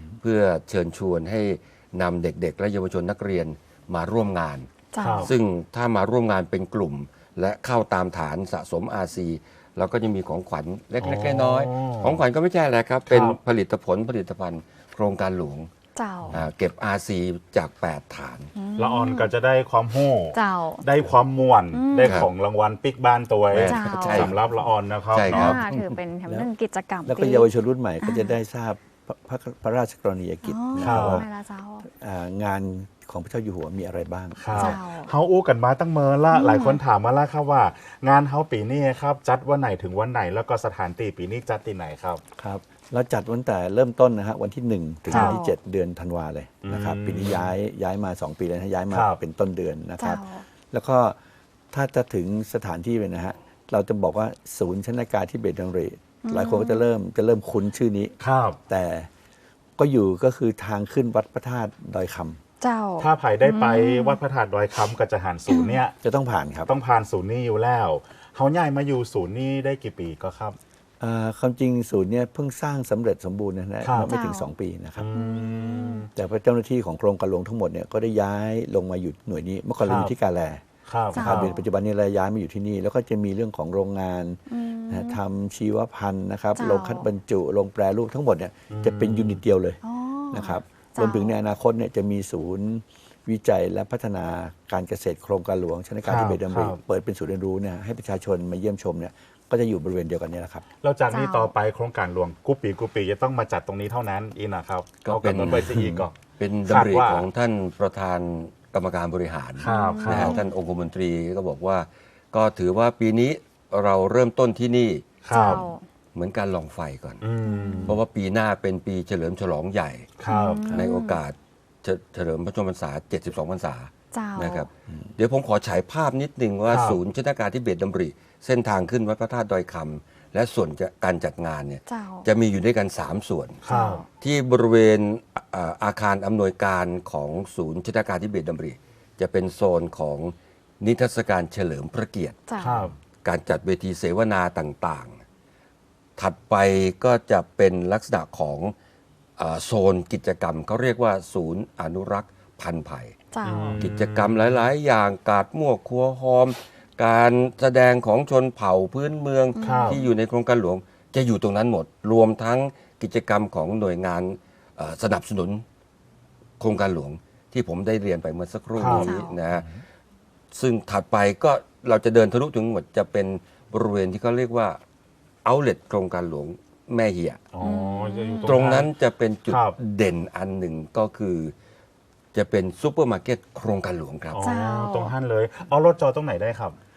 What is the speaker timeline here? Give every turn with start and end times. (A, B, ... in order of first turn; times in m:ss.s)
0:00.2-0:15.7 A
0:04.9-0:05.3 B
0:05.0-0:05.3 C
0:11.0-0:12.2 C
0:13.0-0:13.4 C
0:16.0-0:16.3 B
0:16.3-0:18.5 A
0:18.5-0:19.3 B
0:18.8-0:25.6 C
0:20.3-0:20.8 B
0:21.7-0:22.2 B
0:22.0-0:22.3 A
0:23.5-0:24.4 A
0:23.6-0:24.3 B
0:25.1-0:25.9 A
0:25.3-0:27.5 B
0:27.0-0:31.2 D
0:28.0-0:28.4 B
0:30.4-0:31.8 B
0:30.8-0:31.2 C
0:31.8-0:34.8 D
0:34.4-0:42.2 C
0:34.5-0:35.1 B
0:36.3-0:36.8 B
0:42.4-0:51.2 D
0:45.1-0:45.4 C
0:45.1-0:45.5 B
0:46.6-0:47.5 C
0:48.9-0:49.2 C
0:50.0-0:50.4 B
0:51.7-0:58.1 D
0:56.2-0:56.9 B
0:58.2-0:58.6 C
0:58.7-0:59.1 D
0:59.8-1:02.4 D
1:02.6-1:04.2 B
1:03.0-1:06.0 C
1:05.5-1:05.8 B
1:06.0-1:06.7 D
1:06.7-1:10.6 C
1:11.0-1:15.1 D
1:13.8-1:14.1 C
1:14.0-1:14.5 B
1:15.0-1:16.1 C
1:15.1-1:16.1 B
1:16.1-1:29.8 D
1:19.8-1:20.1 C
1:20.8-1:21.5 C
1:21.1-1:21.6 B
1:24.5-1:25.2 B
1:26.6-1:27.0 B
1:28.7-1:29.4 C
1:29.8-1:31.3 B
1:30.3-1:40.6 D
1:36.0-1:36.8 C
1:40.8-1:47.3 C
1:41.1-1:41.5 B
1:45.0-1:45.8 A
1:45.5-1:46.0 D
1:46.4-1:55.5 A
1:49.6-1:50.4 C
1:49.6-1:50.5 B
1:55.2-1:55.6 C
1:55.3-1:55.8 B
1:56.1-1:57.2 A
1:57.2-1:58.0 C
1:57.4-1:57.9 B
1:57.8-2:00.1 A
2:00.2-2:00.7 C
2:00.3-2:01.2 B
2:00.7-2:13.6 A
2:04.1-2:04.7 B
2:06.7-2:07.0 C
2:11.9-2:12.2 B
2:13.6-2:14.0 C
2:13.7-2:14.0 B
2:14.2-2:22.4 A
2:22.5-2:22.9 B
2:22.6-2:23.0 C
2:23.2-2:25.2 A
2:26.2-2:28.7 A
2:29.4-2:33.1 A
2:33.3-2:33.8 B
2:33.4-2:34.6 C
2:33.8-2:45.6 A
2:39.5-2:40.0 B
2:39.6-2:40.0 C
2:46.6-2:49.7 A
2:48.8-2:49.1 C
2:48.9-2:49.4 B
2:50.5-2:54.8 A
2:55.4-2:57.4 A
2:57.5-2:58.9 C
2:57.6-2:58.6 B
2:58.4-3:01.5 A
2:59.5-2:59.8 C
3:02.3-3:04.5 A
3:04.3-3:06.8 C
3:04.4-3:05.1 B